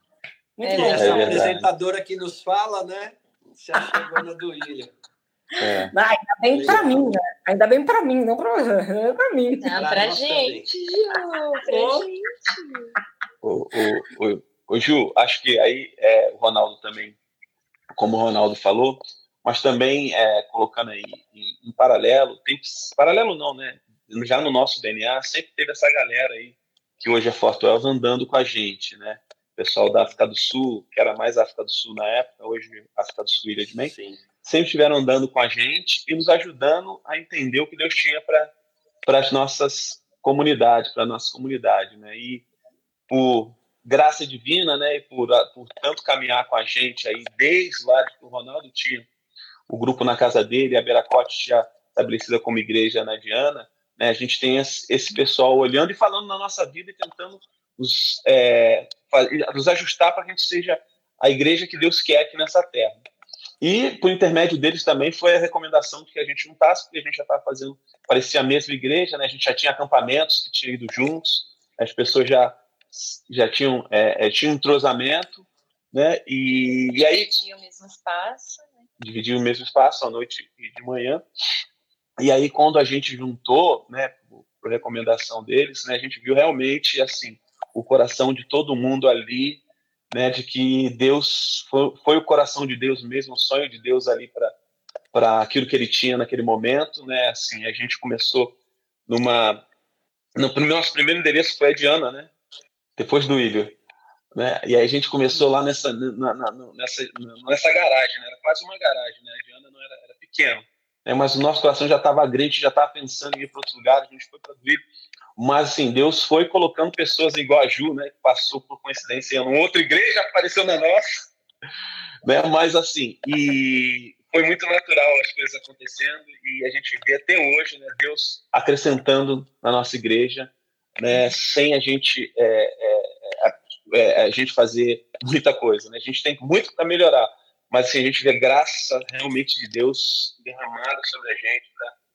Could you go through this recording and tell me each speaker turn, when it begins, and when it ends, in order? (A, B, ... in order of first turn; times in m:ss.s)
0:00.6-0:01.4 A
0:00.6-0:01.2 B
0:00.7-0:04.9 C
0:00.9-0:01.7 D
0:05.6-0:05.9 D
0:05.9-0:09.9 A
0:06.5-0:07.0 C
0:09.6-0:12.9 B
0:09.7-0:10.7 C
0:11.7-0:12.0 C
0:13.4-0:17.2 D
0:18.0-0:33.9 D
0:33.8-0:34.2 C
0:34.4-0:38.5 D
0:39.0-0:42.4 D
0:43.1-0:49.1 D
0:49.7-1:03.0 D
1:03.6-1:17.3 D
1:16.9-1:18.9 B
1:19.0-1:21.2 D
1:22.2-1:29.6 D
1:30.1-1:34.5 D
1:35.1-1:38.5 D
1:39.1-1:39.6 D
1:40.4-1:42.3 D
1:43.0-1:43.8 D
1:44.3-1:54.8 D
1:55.4-2:01.3 D
2:02.2-2:21.9 D